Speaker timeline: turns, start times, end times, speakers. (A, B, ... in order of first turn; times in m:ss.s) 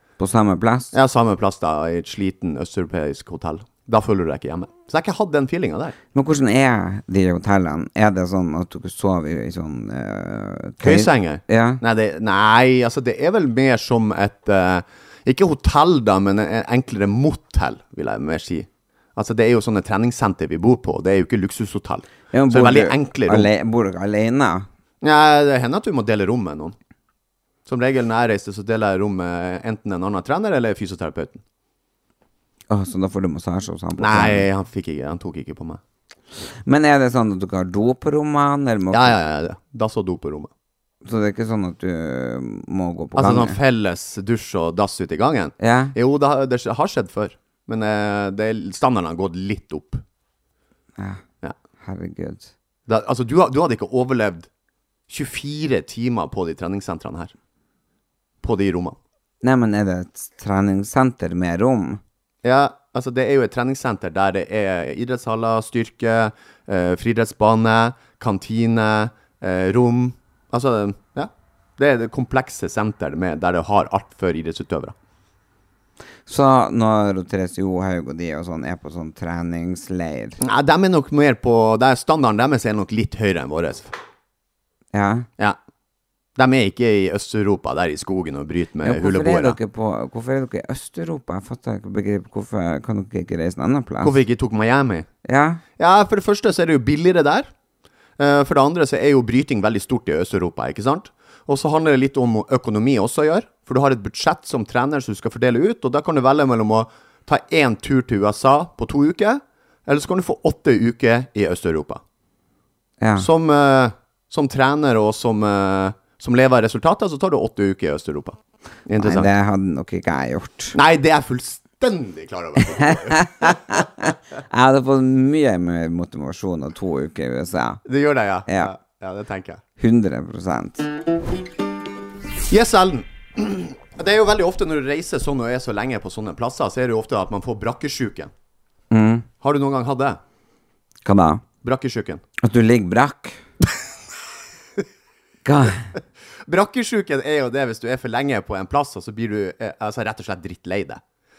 0:00.2-0:01.0 A
0:00.9-0:05.9 B
0:06.1-0:11.8 A
0:10.8-0:23.5 B
0:22.3-0:24.7 A
0:25.0-0:26.7 B
0:27.7-0:31.4 B
0:32.7-0:34.5 A
0:34.0-0:35.8 B
0:36.4-0:39.2 A
0:38.9-0:40.5 B
0:41.0-0:43.6 A
0:43.2-0:50.0 B
0:45.6-0:46.0 A
0:51.0-0:51.2 A
0:51.8-0:52.5 A
0:52.9-0:54.5 B
0:55.1-0:57.3 B
0:58.4-0:59.0 B
0:59.4-1:02.0 A
1:02.4-1:14.9 B
1:16.3-1:20.4 A
1:20.4-1:23.9 B
1:24.9-1:25.3 A
1:26.4-1:29.6 B
1:28.8-1:34.2 A
1:34.0-1:35.1 B
1:35.2-1:35.6 A
1:35.8-1:37.5 B
1:38.2-1:52.0 B
1:53.0-1:53.3 A
1:53.2-1:58.4 B
1:58.9-1:59.3 B
1:59.0-2:00.8 A
2:00.7-2:03.8 B
2:02.8-2:07.8 A
2:07.8-2:09.6 B
2:08.5-2:08.7 A
2:09.8-2:10.9 A
2:12.5-2:18.3 B
2:18.9-2:19.2 A
2:19.4-2:20.2 B
2:21.0-2:21.4 A
2:21.6-2:22.2 B
2:22.4-2:23.4 A
2:25.4-2:25.9 A
2:26.4-2:31.0 B